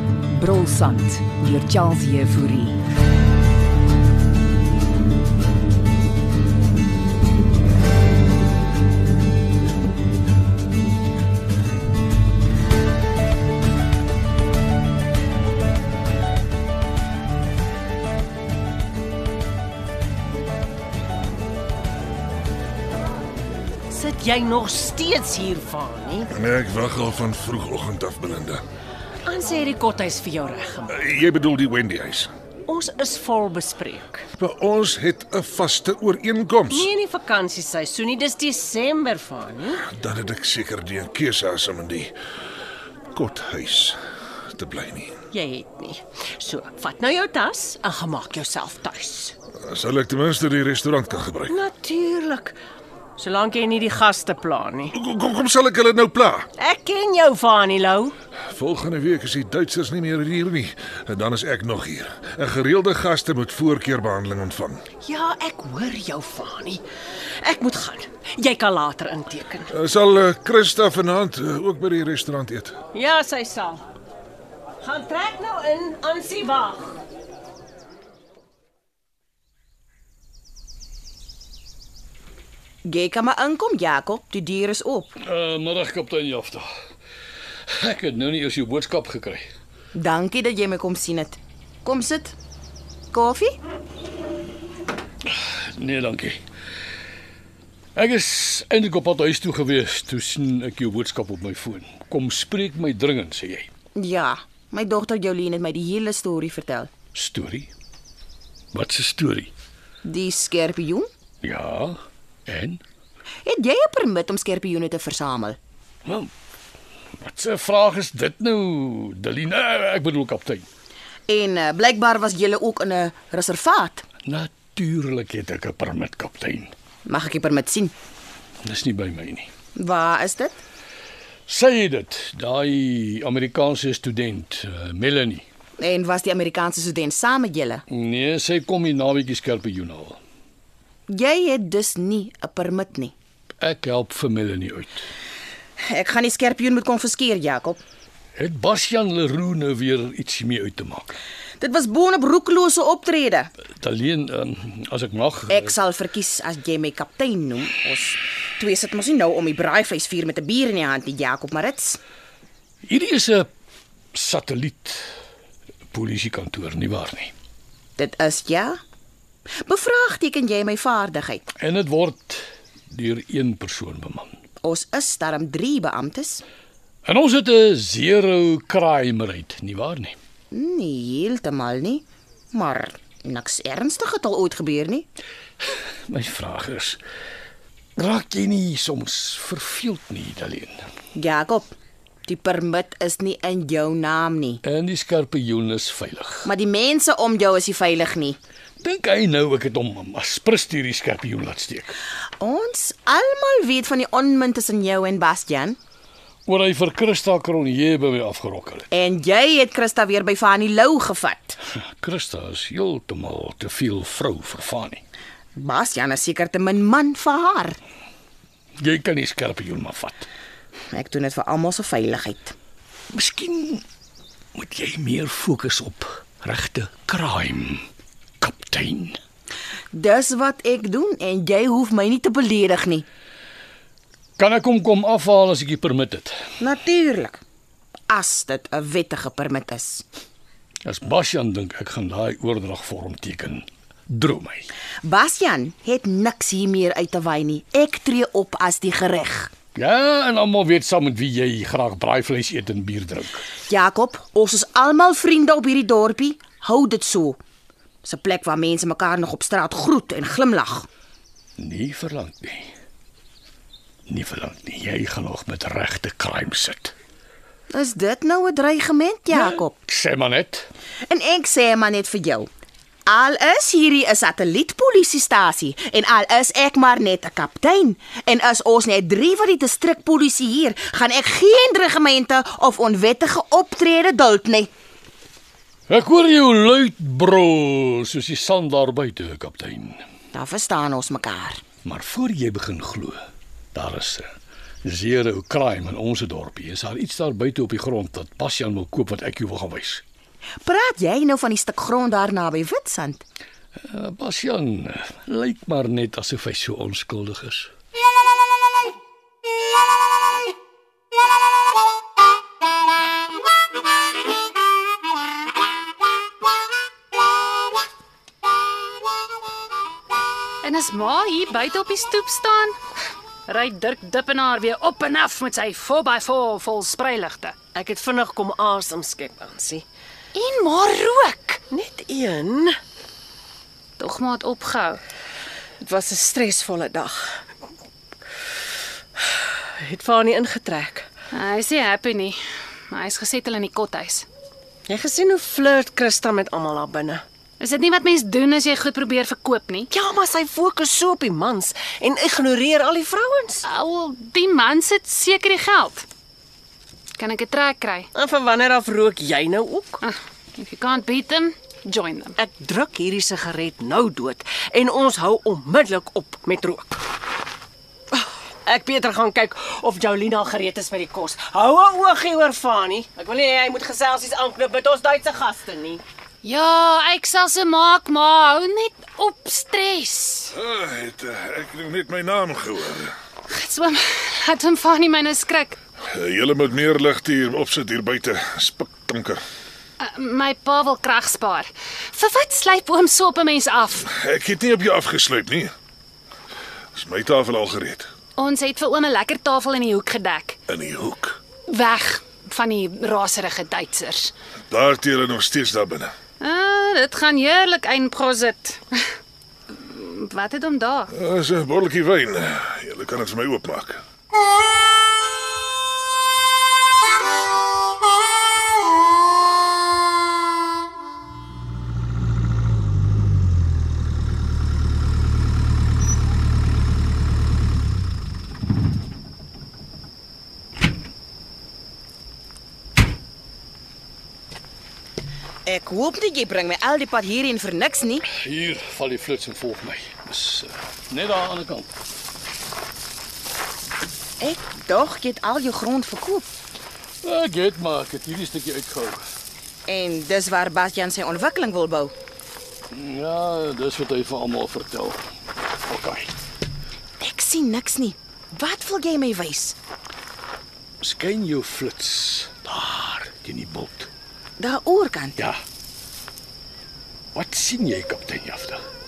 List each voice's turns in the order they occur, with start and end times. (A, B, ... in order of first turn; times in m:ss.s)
0:00.3-0:02.8 A
0:23.9-0:26.3 B
0:26.3-0:28.6 C
0:29.2-0:31.0 B
0:30.9-0:32.3 C
0:32.7-0:34.2 B
0:34.4-0:36.9 C
0:36.7-0:39.8 B
0:39.9-0:42.1 C
0:43.1-0:44.0 C
0:44.5-0:45.2 C
0:45.3-0:49.3 B
0:49.6-0:51.6 C
0:51.5-0:52.5 B
0:53.2-0:54.9 B
0:54.9-0:56.5 C
0:56.6-0:58.1 B
0:58.5-1:04.8 C
1:05.0-1:06.8 B
1:07.4-1:09.7 B
1:09.7-1:12.7 C
1:12.9-1:13.8 B
1:14.8-1:17.0 B
1:22.8-1:25.1 D
1:25.2-1:26.6 E
1:27.8-1:29.4 E
1:29.9-1:32.4 D
1:33.1-1:33.6 D
1:35.3-1:36.4 E
1:38.0-1:43.7 E
1:44.0-1:46.9 D
1:47.1-1:47.7 E
1:48.7-1:49.5 E
1:50.0-1:51.1 D
1:51.4-1:52.8 E
1:53.4-1:55.6 D
1:57.2-2:00.6 E
2:01.3-2:04.0 D
2:04.2-2:06.7 E
2:07.0-2:07.9 D
2:08.6-2:09.5 E
2:09.8-2:10.6 D
2:11.5-2:15.4 E
2:15.8-2:17.8 D
2:17.9-2:20.2 E
2:21.1-2:23.1 D
2:23.6-2:25.0 E
2:25.8-2:27.8 D
2:28.4-2:31.2 E
2:31.6-2:33.5 D
2:33.8-2:35.7 E
2:35.5-2:42.0 D
2:42.8-2:43.5 E
2:44.1-2:45.0 E
2:45.9-2:47.3 E
2:48.0-2:48.8 D
2:49.6-2:51.4 D
2:51.6-2:54.4 E
2:54.6-2:56.4 D
2:57.0-3:00.2 E
3:00.5-3:05.1 D
3:06.1-3:07.0 E
3:08.0-3:10.8 E
3:11.2-3:11.7 D
3:12.2-3:14.6 D
3:14.6-3:16.5 E
3:16.4-3:18.4 D
3:18.8-3:22.0 E
3:22.4-3:25.8 D
3:26.4-3:28.8 E
3:28.9-3:31.6 D
3:32.0-3:35.0 E
3:35.6-3:37.8 D
3:38.8-3:40.3 E
3:40.9-3:42.5 D
3:43.1-3:43.8 E
3:44.6-3:47.8 E
3:48.4-3:49.2 E
3:49.9-3:53.0 D
3:54.4-3:56.3 E
3:56.6-3:57.4 D
3:58.1-4:00.0 D
4:00.8-4:04.7 E
4:05.0-4:09.5 D
4:09.7-4:13.4 E
4:13.7-4:17.4 D
4:18.0-4:20.9 D
4:21.6-4:22.7 E
4:24.1-4:26.9 E
4:27.7-4:29.7 D
4:29.3-4:30.7 E
4:31.0-4:32.5 D
4:33.1-4:44.7 D
4:45.9-4:50.0 E
4:50.3-4:51.6 D
4:51.8-4:53.2 E
4:53.7-4:54.3 E
4:54.8-5:00.0 E
5:00.6-5:03.2 D
5:03.9-5:07.7 E
5:20.6-5:22.8 F
5:23.5-5:27.6 F
5:27.7-5:29.8 B
5:30.3-5:31.6 F
5:31.7-5:32.8 B
5:34.0-5:35.0 F
5:35.8-5:37.3 B
5:39.8-5:41.0 B
5:41.3-5:42.4 F
5:42.9-5:44.3 F
5:44.9-5:47.2 B
5:47.6-5:49.9 F
5:49.9-5:53.6 B
5:53.6-5:56.0 F
5:57.2-5:58.1 F
5:58.1-6:00.0 B
6:00.0-6:02.4 F
6:02.4-6:07.0 B
6:08.1-6:16.0 B
6:16.4-6:20.5 F
6:20.5-6:23.1 C
6:23.5-6:25.8 F
6:26.1-6:29.4 C
6:30.0-6:34.1 F
6:34.1-6:35.7 C
6:36.9-6:38.1 C
6:38.4-6:40.6 F
6:40.7-6:41.4 C
6:41.7-6:44.3 F
6:44.7-6:46.1 C
6:46.4-6:49.0 F
6:49.7-6:51.1 F
6:51.1-6:54.0 C
7:15.6-7:18.2 D
7:18.4-7:21.9 E
7:24.4-7:26.5 D
7:27.2-7:29.2 E
7:29.9-7:32.1 D
7:32.9-7:35.2 E
7:35.9-7:36.3 E
7:37.2-7:39.8 D
7:41.0-7:44.1 E
7:44.6-7:45.4 D
7:47.3-7:48.8 E